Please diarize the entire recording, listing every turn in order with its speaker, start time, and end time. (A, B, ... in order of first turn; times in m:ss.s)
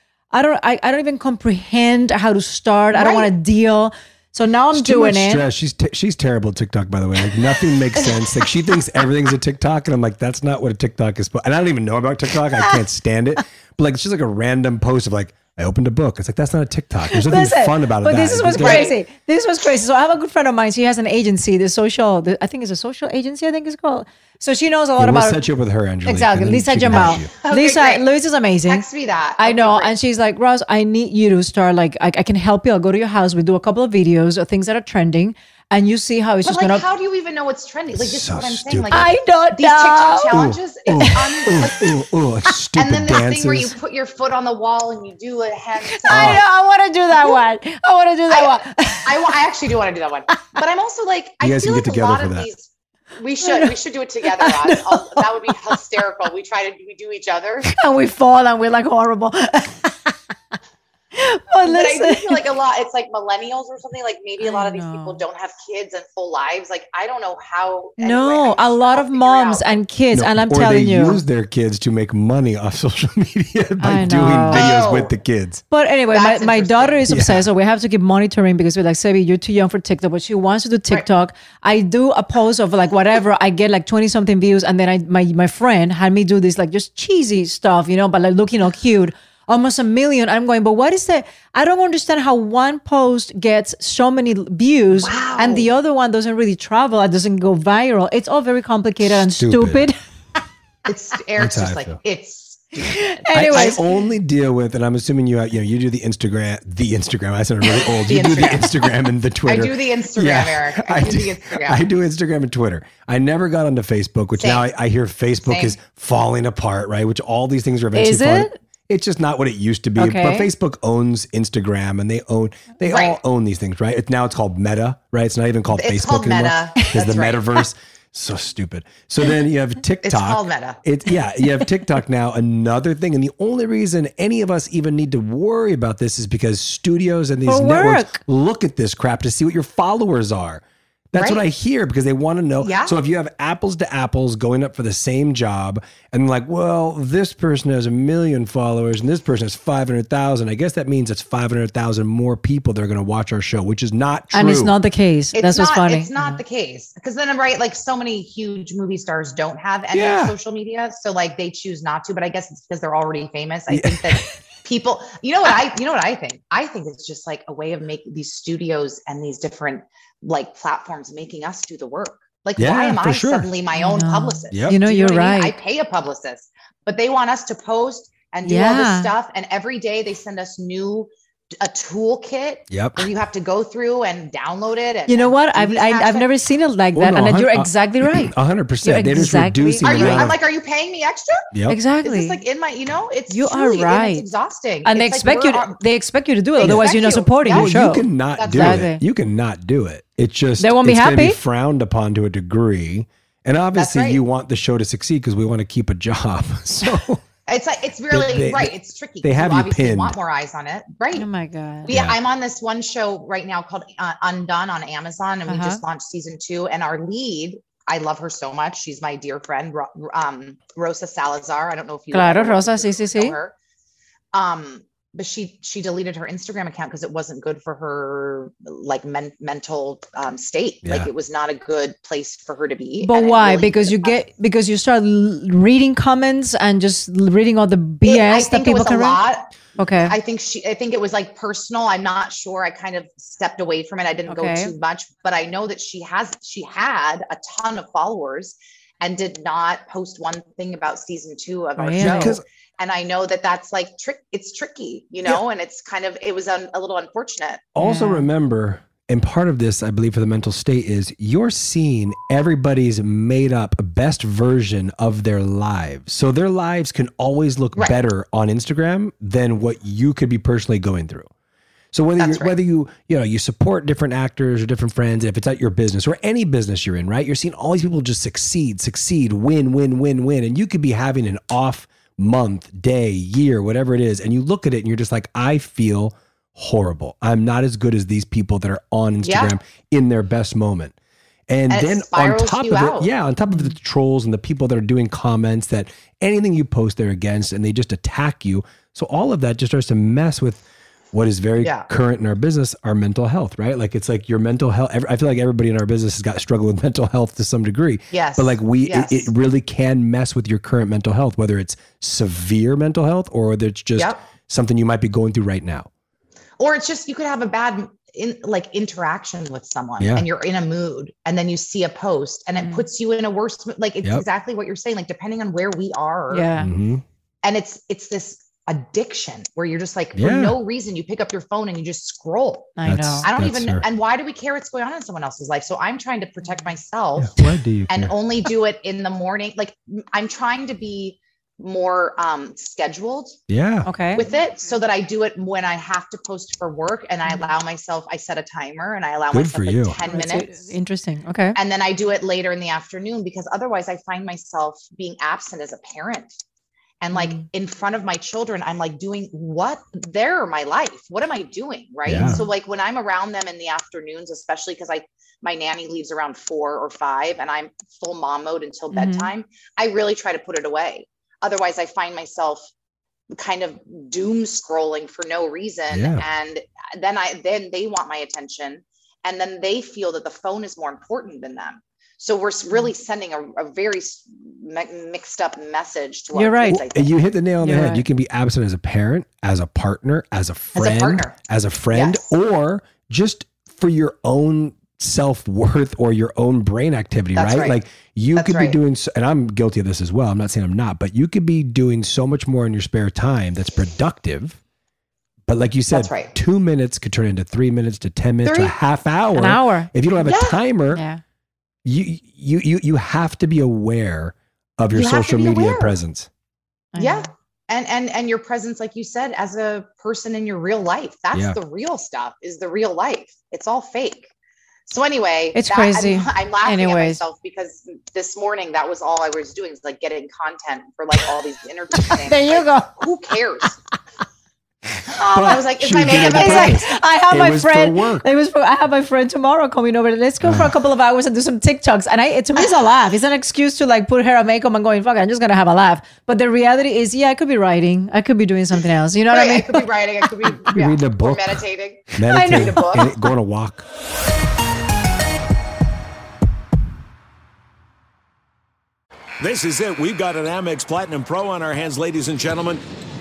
0:00.3-0:05.4 A
0:02.9-0:03.3 B
0:04.7-0:18.9 C
0:17.1-0:25.5 A
0:18.5-0:19.0 B
0:25.0-0:27.3 C
0:26.1-0:28.8 A
0:26.9-0:28.0 B
0:28.7-0:29.9 B
0:29.4-0:36.8 A
0:36.4-0:41.9 B
0:37.9-0:39.0 C
0:38.9-0:40.4 A
0:40.3-0:43.8 C
0:42.8-0:46.4 B
0:45.9-0:49.3 A
0:46.1-0:46.4 C
0:48.3-0:57.7 B
0:51.4-0:52.5 C
0:53.4-0:55.7 A
0:57.7-1:00.1 A
1:01.2-1:02.4 A
1:01.6-1:09.8 B
1:04.4-1:05.2 A
1:08.0-1:11.2 A
1:10.1-1:15.6 C
1:13.8-1:14.7 A
1:14.5-1:15.1 B
1:15.7-1:40.0 A
1:16.1-1:17.1 B
1:17.1-1:17.5 C
1:34.9-1:35.7 B
1:39.0-1:39.9 C
1:40.9-1:43.8 B
1:41.4-1:42.0 C
1:42.9-1:43.8 A
1:43.3-2:34.7 C
1:48.1-1:48.7 B
1:48.4-1:48.7 A
1:49.4-1:51.8 B
1:54.4-1:54.7 B
1:55.4-1:55.8 B
1:58.0-1:58.6 A
2:00.0-2:00.5 A
2:02.9-2:03.2 B
2:05.7-2:07.4 B
2:10.0-2:10.8 B
2:17.5-2:18.2 A
2:21.2-2:21.4 B
2:22.6-2:22.9 B
2:34.3-2:36.4 A
2:35.3-3:06.3 B
2:39.9-2:40.4 C
2:43.7-2:44.2 C
2:52.6-2:53.5 C
2:53.8-2:55.6 A
2:58.4-2:59.1 A
3:02.7-3:03.1 C
3:05.1-3:08.3 A
3:07.0-3:10.4 C
3:08.8-3:10.3 A
3:09.8-3:11.4 B
3:11.5-3:11.8 C
3:11.7-3:12.4 A
3:12.0-3:15.8 B
3:13.3-3:14.3 A
3:14.9-3:19.0 A
3:16.6-3:18.9 B
3:17.5-3:27.2 C
3:20.6-3:21.4 A
3:23.8-3:24.2 B
3:27.5-3:31.3 B
3:28.1-3:30.2 C
3:31.1-3:31.9 A
3:31.8-3:43.6 B
3:31.9-3:32.2 C
3:35.5-3:35.8 A
3:42.1-3:43.4 A
3:44.3-3:54.2 B
3:50.8-3:51.1 C
3:53.0-3:59.2 A
3:58.0-4:17.6 B
3:59.8-4:00.2 A
4:04.3-4:04.7 A
4:11.8-4:12.4 A
4:12.0-4:12.4 C
4:17.8-4:31.3 C
4:17.8-4:18.3 A
4:31.9-4:51.0 C
4:32.2-4:32.6 B
4:49.2-4:49.5 B
4:51.5-5:15.9 C
4:51.7-4:53.1 B
5:01.6-5:01.9 B
5:08.1-5:09.3 B
5:16.6-5:26.5 B
5:20.0-5:20.3 C
5:22.6-5:22.8 A
5:26.3-5:26.7 A
5:26.6-5:27.0 C
5:27.4-5:37.3 B
5:30.2-5:30.6 C
5:32.8-5:33.3 A
5:32.8-5:33.8 C
5:36.4-5:36.7 A
5:37.2-5:38.1 C
5:37.9-5:43.4 B
5:43.5-5:43.9 C
5:43.9-5:44.2 A
5:44.2-5:50.7 B
5:47.3-5:47.5 A
5:49.3-5:50.0 C
5:50.0-5:51.6 A
5:51.6-5:56.4 B
5:57.0-6:12.7 B
5:57.1-5:57.4 A
6:02.1-6:02.4 C
6:02.2-6:02.5 A
6:08.9-6:09.3 A
6:13.3-6:27.1 B
6:15.9-6:16.2 C
6:26.4-6:26.8 A
6:26.7-6:44.6 C
6:27.6-6:28.0 A
6:30.8-6:31.4 B
6:31.9-6:32.3 B
6:37.4-6:37.8 B
6:38.4-6:38.8 B
6:45.5-6:51.0 C
6:45.9-6:46.3 B
6:48.4-6:48.8 A
6:49.3-6:49.9 A
6:50.2-6:50.6 B
6:50.9-6:51.2 A
6:51.8-6:56.3 C
6:54.9-6:55.9 B
6:56.9-6:57.3 A
6:57.0-7:04.3 B
7:01.3-7:01.6 C
7:04.9-7:13.8 B
7:05.6-7:07.2 A
7:12.2-7:12.9 A
7:15.1-7:16.8 B
7:15.3-7:18.2 C
7:16.1-7:29.9 A
7:20.4-7:20.7 C
7:29.3-7:33.1 B
7:30.7-7:31.6 C
7:32.1-7:33.9 C
7:32.3-7:33.2 A
7:39.4-7:42.8 D